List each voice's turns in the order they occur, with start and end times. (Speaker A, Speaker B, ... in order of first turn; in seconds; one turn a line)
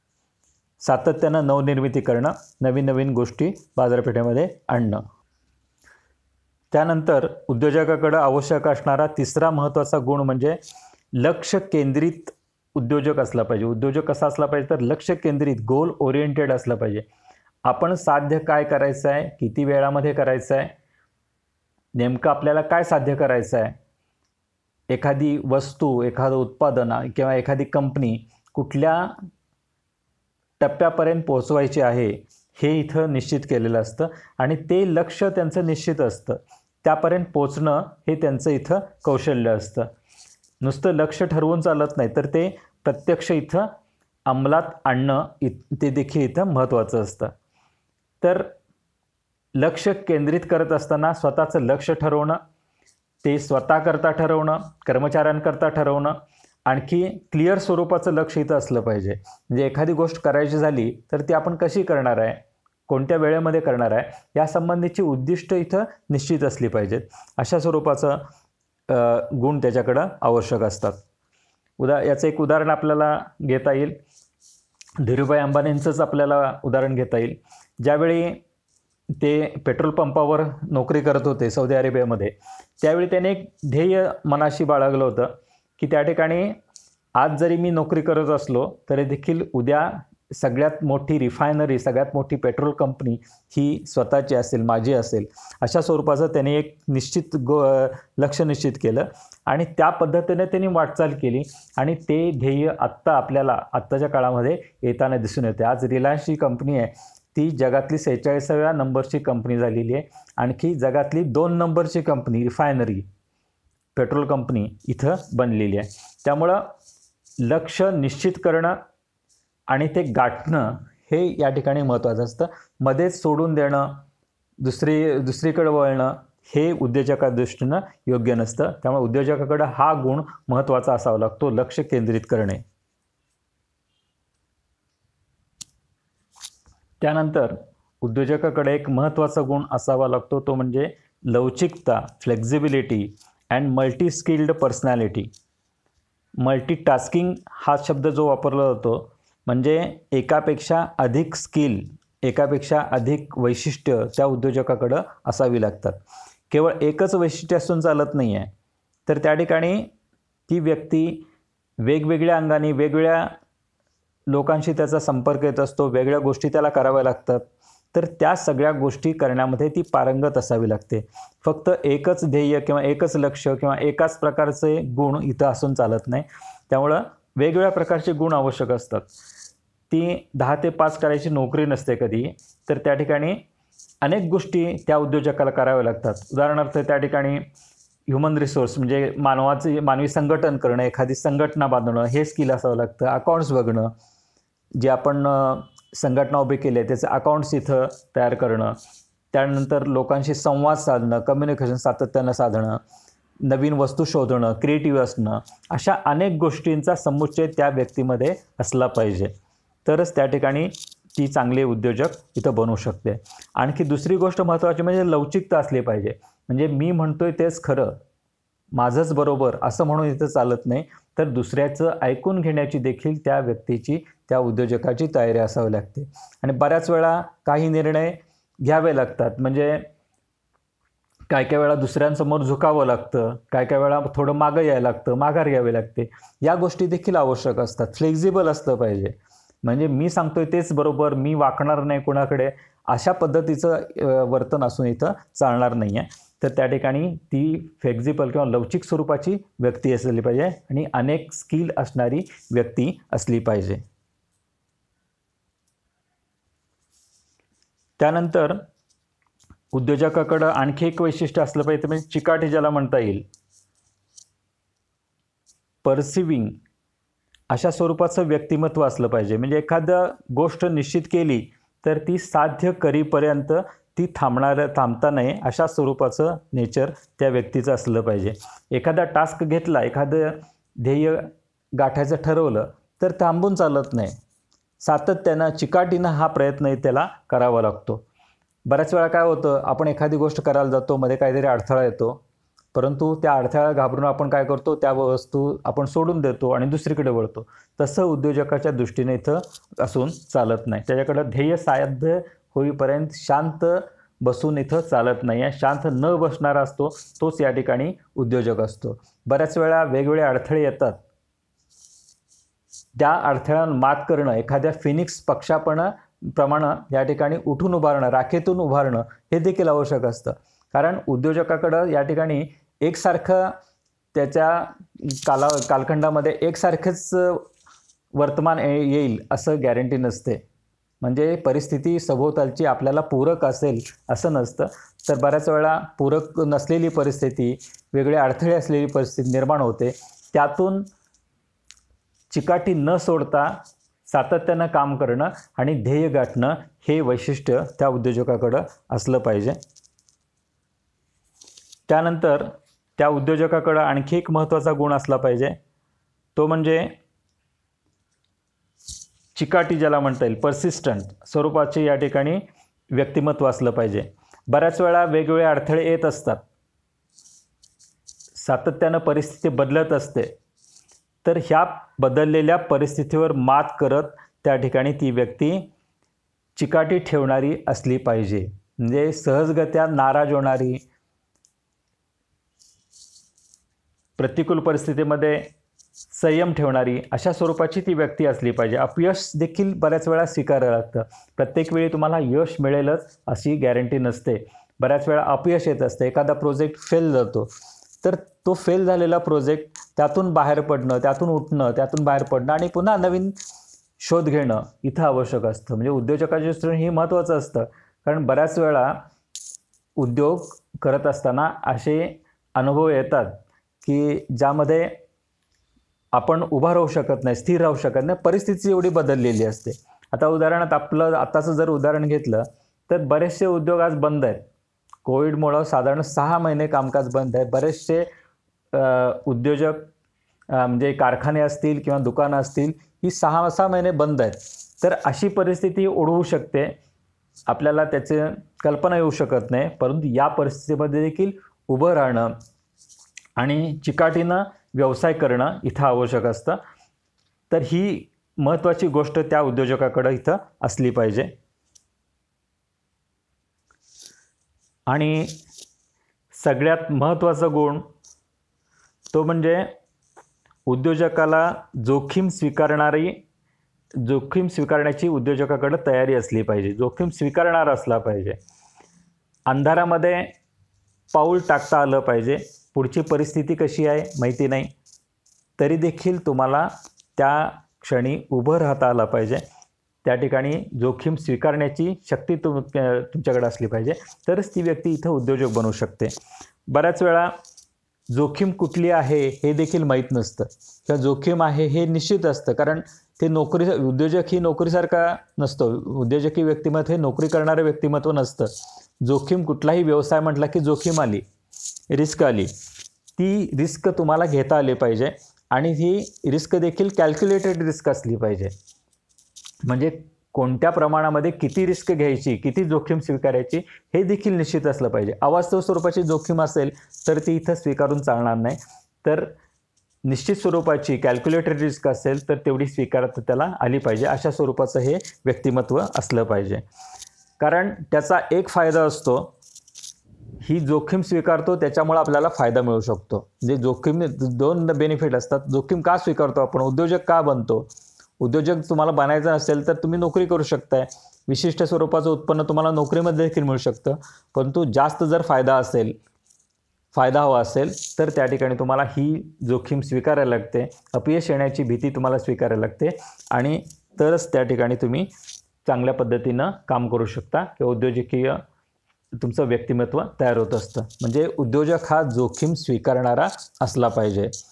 Speaker A: 0.8-5.0
Speaker A: 6.7-10.6
Speaker A: 11.2-17.1
Speaker A: 17.6-20.7
Speaker A: 22.0-23.8
Speaker A: 24.9-29.1
Speaker A: 30.6-39.9
Speaker A: 40.6-43.7
Speaker A: 44.3-47.3
Speaker A: 48.2-48.5
Speaker A: 49.6-52.4
Speaker A: 53.2-56.1
Speaker A: 56.7-68.2
Speaker A: 68.9-71.0
Speaker A: 71.8-74.0
Speaker A: 75.0-78.4
Speaker A: 79.2-86.6
Speaker A: 87.2-113.1
Speaker A: 113.9-116.7
Speaker A: 117.4-118.8
Speaker A: 119.7-124.0
Speaker A: 124.6-132.6
Speaker A: 137.0-145.3
Speaker A: 146.4-156.0
Speaker A: 156.5-158.5
Speaker A: 159.1-159.9
Speaker A: 160.5-161.3
Speaker A: 161.8-163.3
Speaker A: 164.3-179.1
Speaker A: 179.9-183.4
Speaker A: 184.0-187.4
Speaker A: 188.1-193.9
Speaker A: 194.8-198.8
Speaker A: 199.3-202.8
Speaker A: 203.4-209.3
Speaker A: 209.8-217.9
Speaker A: 218.8-229.9
Speaker A: 231.3-253.8
Speaker A: 258.0-258.6
Speaker A: 259.7-263.2
Speaker A: 265.8-266.6
Speaker A: 267.5-284.2
Speaker A: 284.8-288.0
Speaker A: 288.7-292.2
Speaker A: 292.8-311.0
Speaker A: 312.9-323.6
Speaker A: 324.1-327.4
Speaker A: 328.2-330.4
Speaker A: 331.0-340.9
Speaker A: 342.3-349.6
Speaker A: 351.9-355.6
Speaker A: 356.4-356.9
Speaker A: 359.3-362.4
Speaker A: 362.9-366.4
Speaker A: 368.4-370.3
Speaker A: 371.2-375.7
Speaker A: 376.6-380.8
Speaker A: 384.2-385.5
Speaker A: 386.1-397.5
Speaker A: 398.0-403.3
Speaker A: 404.0-409.0
Speaker A: 410.0-414.9
Speaker A: 416.1-424.4
Speaker A: 425.1-428.1
Speaker A: 428.7-429.9
Speaker A: 430.5-436.8
Speaker A: 437.5-442.3
Speaker A: 443.4-446.6
Speaker A: 447.5-451.3
Speaker A: 454.9-455.4
Speaker A: 456.3-457.9
Speaker A: 459.1-459.7
Speaker A: 460.7-463.2
Speaker A: 464.0-468.4
Speaker A: 469.5-470.3
Speaker A: 471.1-474.7
Speaker A: 475.6-479.4
Speaker A: 480.1-486.1
Speaker A: 486.7-487.3
Speaker A: 488.1-498.5
Speaker A: 499.0-501.2
Speaker A: 501.9-502.5
Speaker A: 503.2-508.5
Speaker A: 509.6-519.3
Speaker A: 520.1-526.6
Speaker A: 527.4-529.3
Speaker A: 530.4-537.7
Speaker A: 538.2-545.9
Speaker A: 546.9-555.1
Speaker A: 555.6-558.4
Speaker A: 559.2-564.3